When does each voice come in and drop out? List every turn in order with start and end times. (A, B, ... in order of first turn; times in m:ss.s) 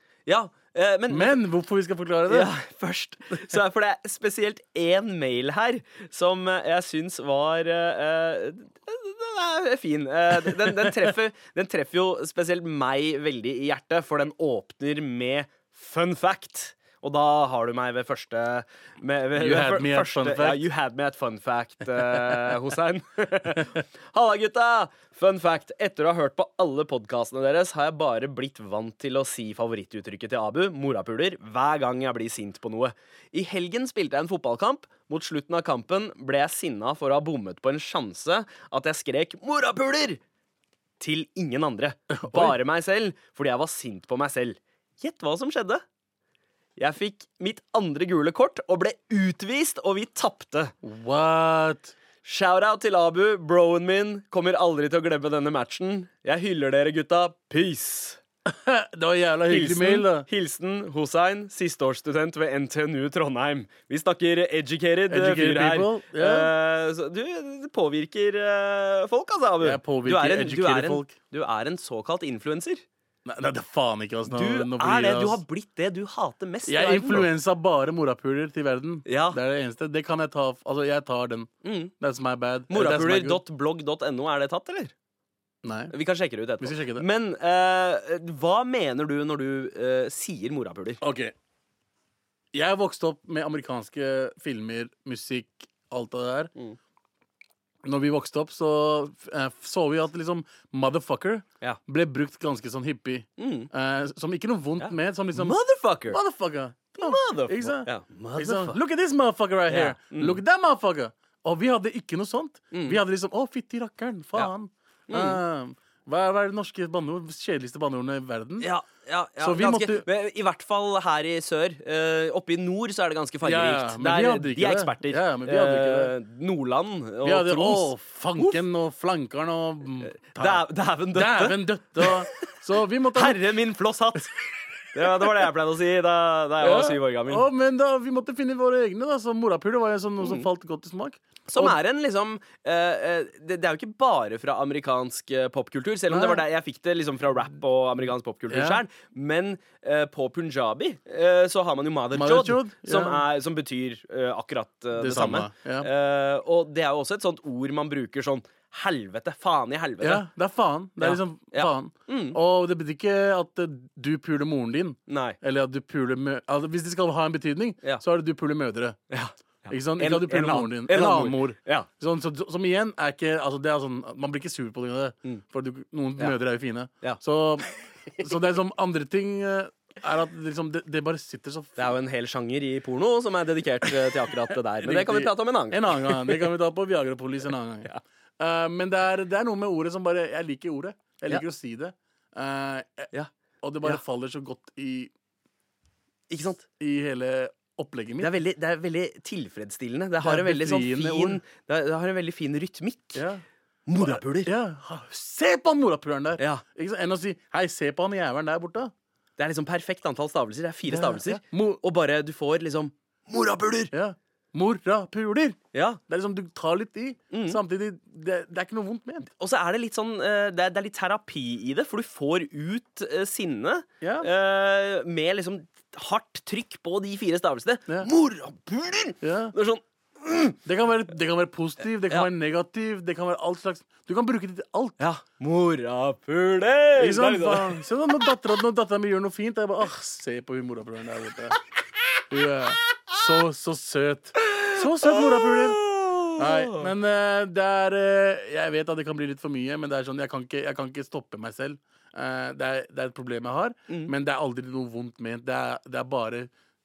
0:00.2-0:01.4 A
0:01.1-0:02.5 B
0:02.3-0:40.2 A
0:10.4-0:11.1 B
0:19.4-0:20.6 B
0:21.9-0:22.5 B
0:41.0-0:45.8 A
0:42.1-0:42.6 B
0:46.8-0:50.7 A
0:50.8-0:51.9 B
0:52.2-0:58.2 A
0:58.4-1:00.3 B
0:59.5-1:12.8 A
1:05.1-1:06.5 B
1:09.6-1:11.1 B
1:13.2-1:15.4 B
1:14.3-1:17.3 A
1:16.7-1:23.4 B
1:19.0-1:19.4 A
1:21.6-1:21.9 A
1:22.7-1:24.9 A
1:25.6-1:25.9 B
1:25.9-1:31.0 A
1:26.6-1:27.0 B
1:31.0-1:31.3 B
1:32.5-1:36.5 B
1:37.8-1:45.6 B
1:43.4-1:43.7 A
1:44.8-1:46.2 A
1:46.1-1:58.7 B
1:47.0-1:48.8 A
1:49.7-1:50.4 A
1:52.7-1:53.0 A
1:55.1-1:55.4 A
1:58.6-2:08.6 A
1:59.4-2:00.0 B
2:03.4-2:06.1 B
2:07.2-2:13.4 B
2:10.0-2:12.2 A
2:13.1-2:14.3 A
2:14.9-2:17.5 A
2:16.6-2:21.8 B
2:20.2-2:20.5 A
2:21.5-2:40.2 A
2:26.1-2:26.4 B
2:28.5-2:28.8 B
2:32.1-2:33.2 B
2:34.9-2:35.9 B
2:40.0-2:49.0 B
2:41.0-2:42.4 A
2:45.1-2:45.4 A
2:49.1-2:51.9 A
2:49.7-3:01.9 B
3:01.8-3:06.5 A
3:04.8-3:13.1 B
3:13.6-3:15.1 B
3:16.3-3:16.6 A
3:16.8-3:18.3 B
3:18.2-3:23.2 A
3:20.2-3:21.4 B
3:23.1-3:23.4 B
3:23.9-3:24.5 A
3:24.0-3:28.9 B
3:26.4-3:26.6 A
3:29.4-3:33.9 A
3:30.9-3:31.8 B
3:33.9-3:39.3 B
3:35.7-3:36.0 A
3:37.3-3:37.6 A
3:39.4-3:50.6 A
3:44.0-3:44.3 B
3:49.2-3:49.5 B
3:50.6-3:55.0 B
3:55.0-3:57.8 A
3:57.0-4:01.6 B
4:02.3-4:05.8 B
4:04.5-4:06.9 A
4:06.4-4:16.5 B